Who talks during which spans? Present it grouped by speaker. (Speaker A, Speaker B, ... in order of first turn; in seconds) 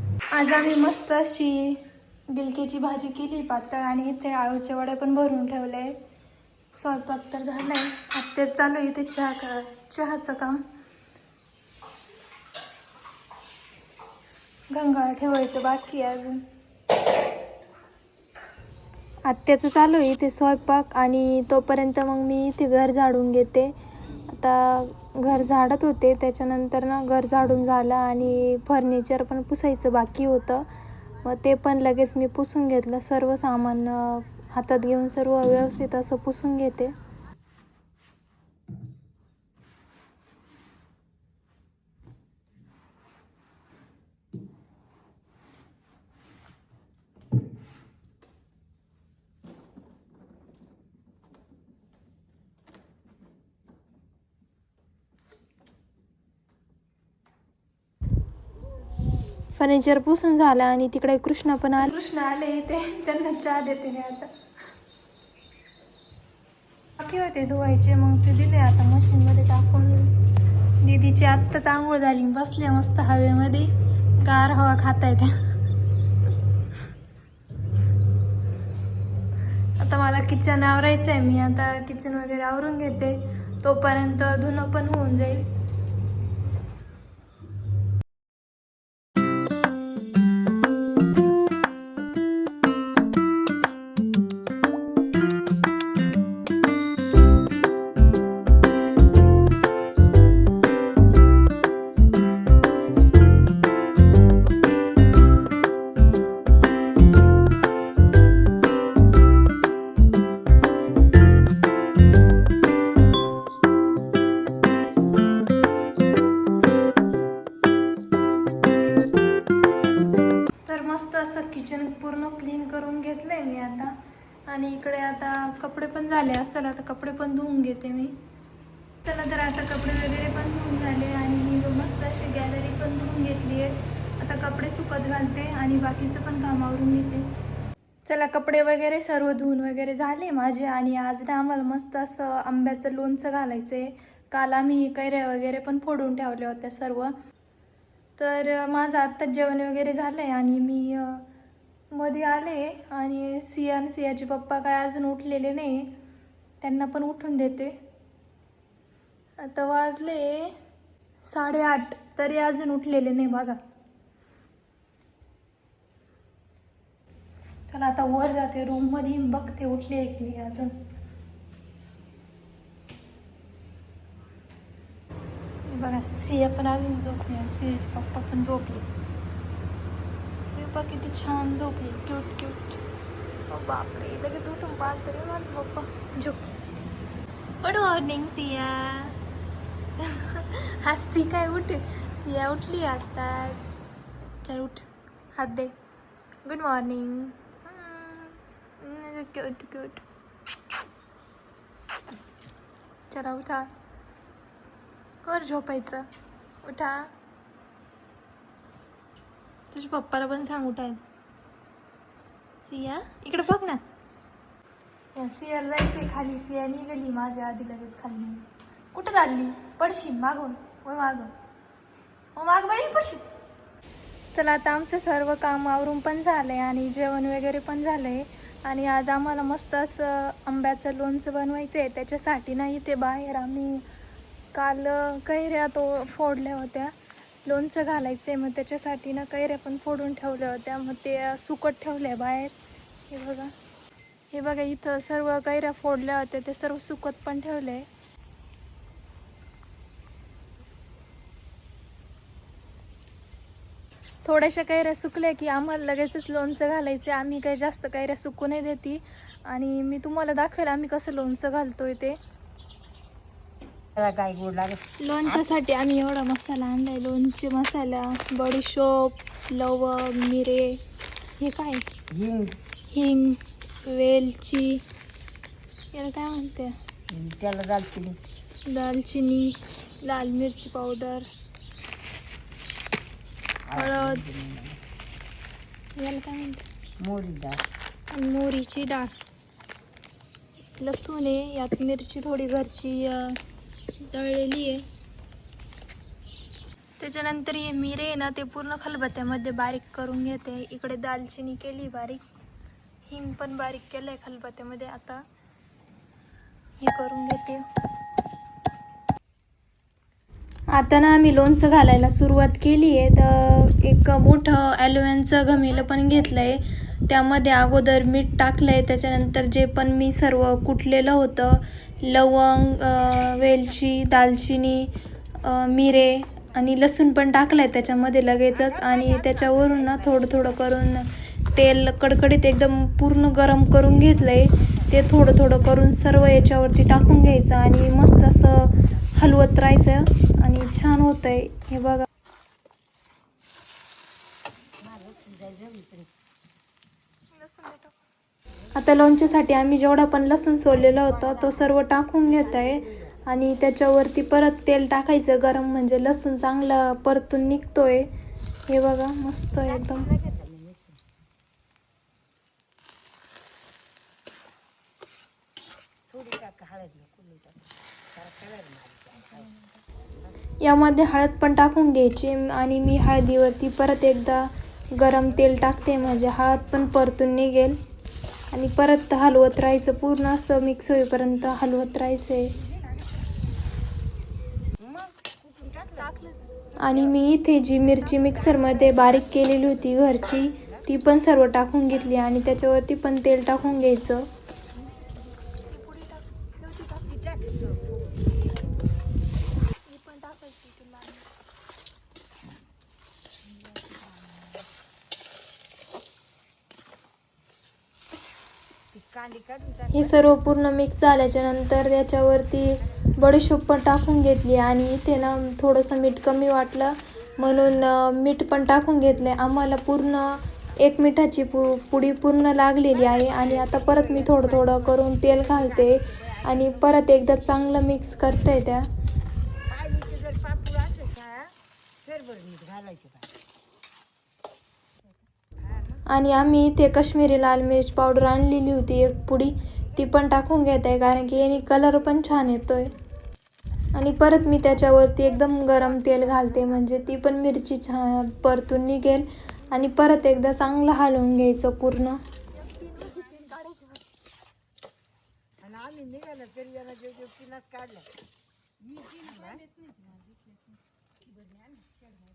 Speaker A: 0.3-6.0, 6.7-10.6, 14.7-16.4, 19.2-23.7, 24.3-30.7, 31.2-36.9, 59.5-64.3, 67.0-70.2, 70.8-75.3, 79.8-85.5, 120.7-123.9, 124.5-128.2, 129.0-137.3, 138.1-147.2, 148.2-151.2, 151.9-155.9, 156.6-157.8, 159.4-160.6, 161.2-163.6, 167.7-170.8, 175.7-178.9, 180.4-182.8, 183.5-186.4, 187.6-189.2, 190.0-193.6, 194.4-195.7, 196.4-200.0, 203.1-203.7, 205.2-206.1, 206.6-207.1, 209.7-211.0, 212.7-213.8, 215.1-221.3, 222.3-223.2, 224.3-233.8, 234.5-236.9, 237.4-242.6, 243.1-243.5, 244.3-247.9, 254.2-262.2, 265.0-270.8, 271.4-271.9, 272.9-274.8, 275.9-276.8, 278.6-281.3, 283.7-284.2, 285.9-286.6, 288.1-289.1, 290.8-293.4, 294.0-294.9, 297.0-302.2, 303.0-305.2, 306.8-307.6, 310.7-342.1, 347.3-347.9, 348.7-358.1, 358.7-360.1, 369.1-369.8, 370.6-377.8, 378.5-382.6, 386.0-394.3, 395.5-397.2, 399.6-401.3, 409.9-428.9, 436.1-442.9, 443.9-454.0
Speaker B: 263.9-265.4, 272.1-272.6, 277.1-278.2, 283.7-284.8, 287.0-287.6, 328.6-330.4, 334.6-334.9, 344.8-346.1, 351.0-351.7, 352.2-353.1, 359.6-361.0, 366.1-369.5, 384.8-387.1, 388.2-389.7, 390.5-390.8, 397.1-398.2, 408.9-410.2, 423.1-426.9, 429.7-433.3, 435.7-436.0, 455.6-458.1, 459.0-459.7, 461.4-462.0